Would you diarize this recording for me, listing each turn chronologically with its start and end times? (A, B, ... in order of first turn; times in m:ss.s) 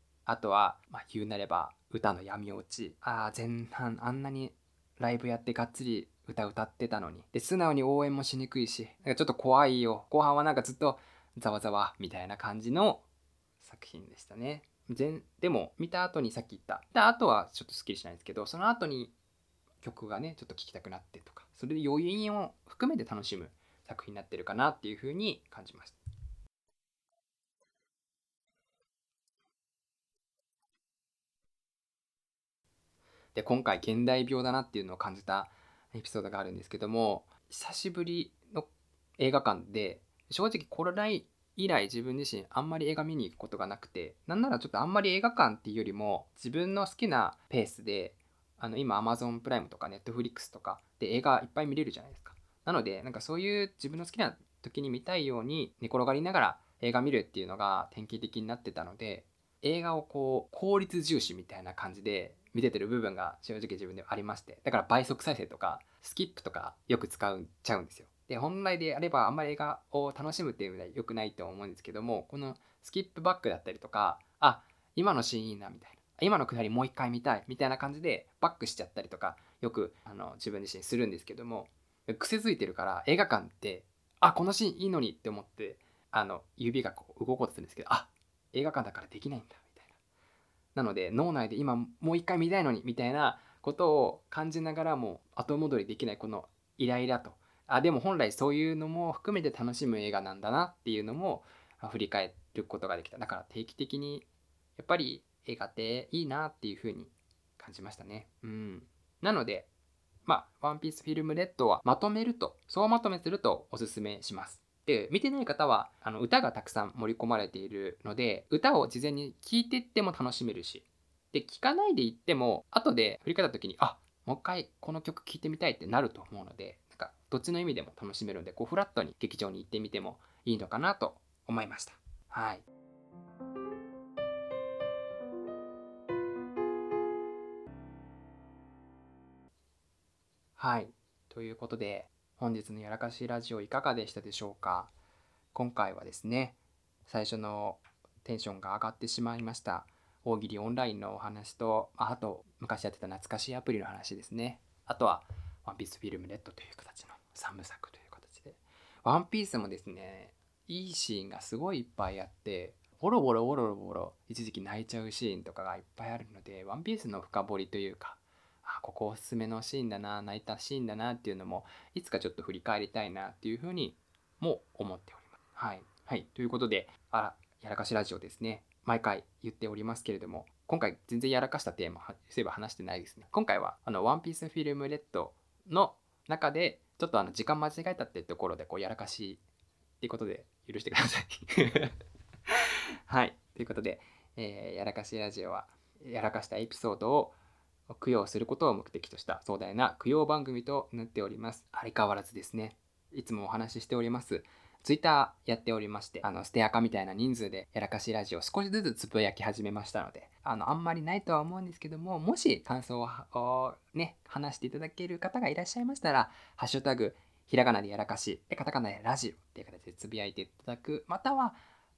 0:00.2-0:13.0 A
0:13.6-0:19.1 A
0:19.8-0:26.0 A
0:33.3-1:29.9 A
1:30.7-1:44.2 A
1:44.8-1:49.7 A
1:50.2-2:12.6 A
2:20.6-2:24.9 A
2:25.5-3:09.4 A
3:10.0-3:11.9 A
3:13.1-3:17.4 A
3:17.9-3:41.6 A